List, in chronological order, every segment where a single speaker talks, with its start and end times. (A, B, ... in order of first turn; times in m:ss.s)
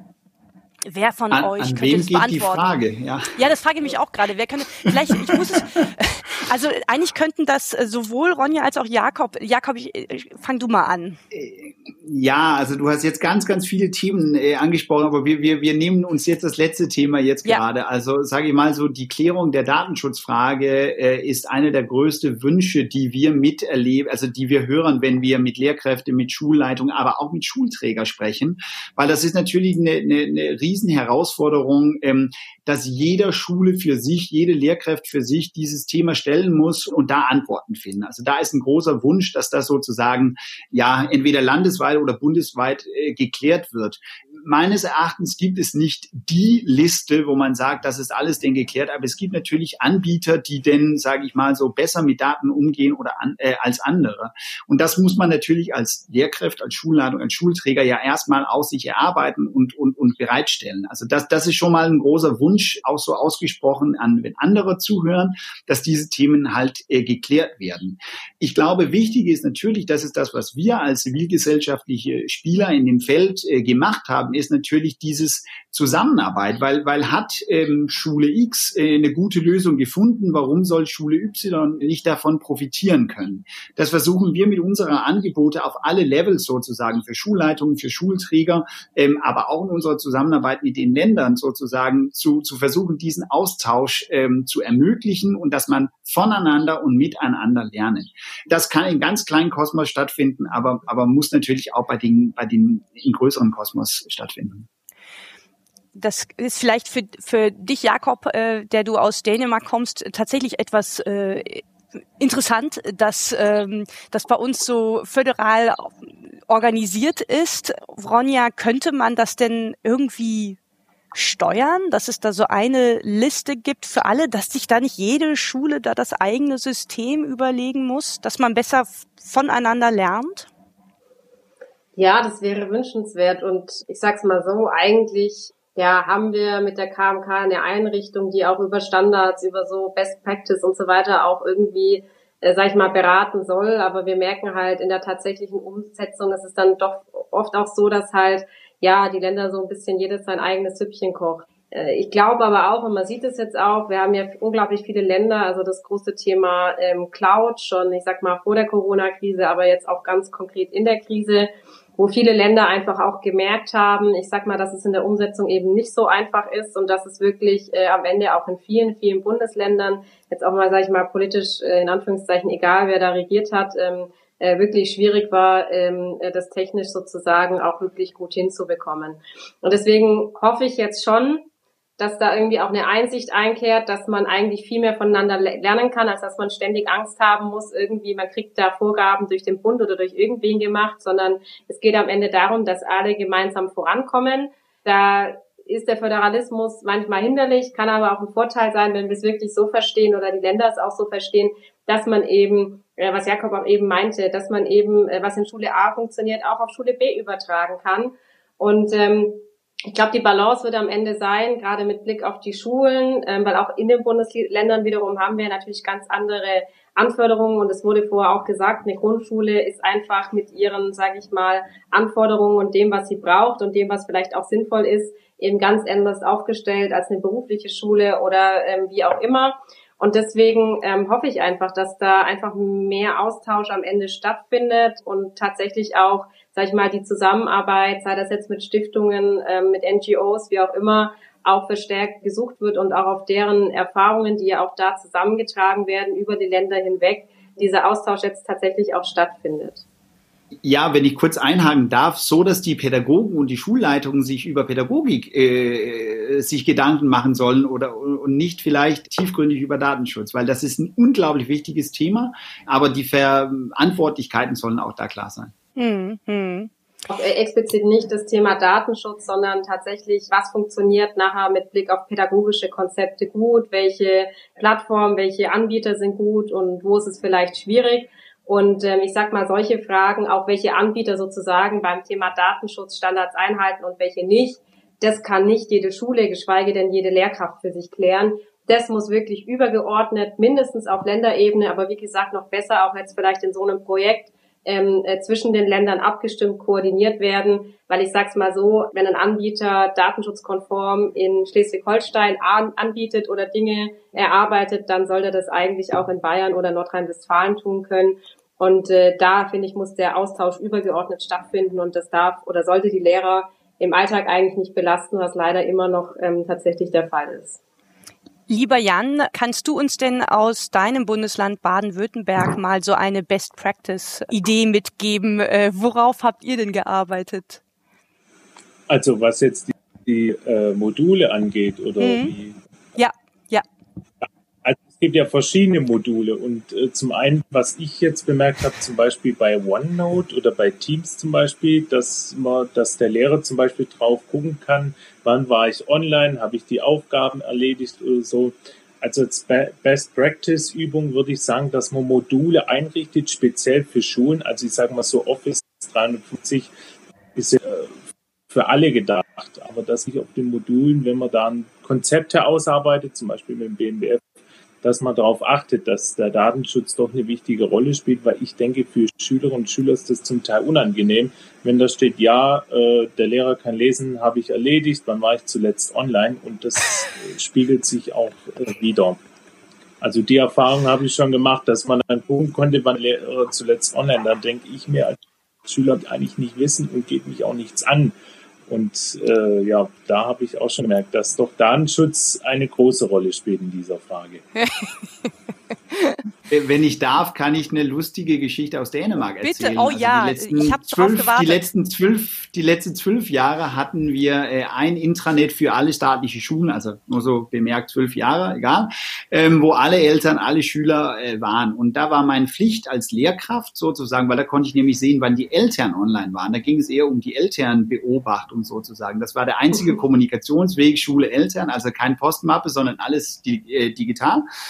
0:00.9-0:02.7 A
0:01.3-0:03.4 B
0:03.4-0:11.2 A
0:11.3-1:44.7 B
1:46.0-1:51.6 A
1:52.2-2:00.6 A
2:01.1-2:10.5 A
2:12.0-4:09.8 C
4:10.6-4:25.5 B
4:25.8-4:26.7 A
4:27.1-5:17.6 C
5:18.5-5:27.6 A
5:28.9-5:32.6 D
5:32.0-5:32.3 A
5:33.0-5:33.6 A
5:34.6-5:56.7 D
5:57.4-5:58.0 D
5:58.5-6:04.3 D
6:04.8-6:19.2 D
6:20.0-6:28.1 D
6:28.7-6:34.4 D
6:34.6-6:35.3 A
6:35.9-6:36.2 A
6:36.5-7:04.5 B
6:39.4-6:41.6 A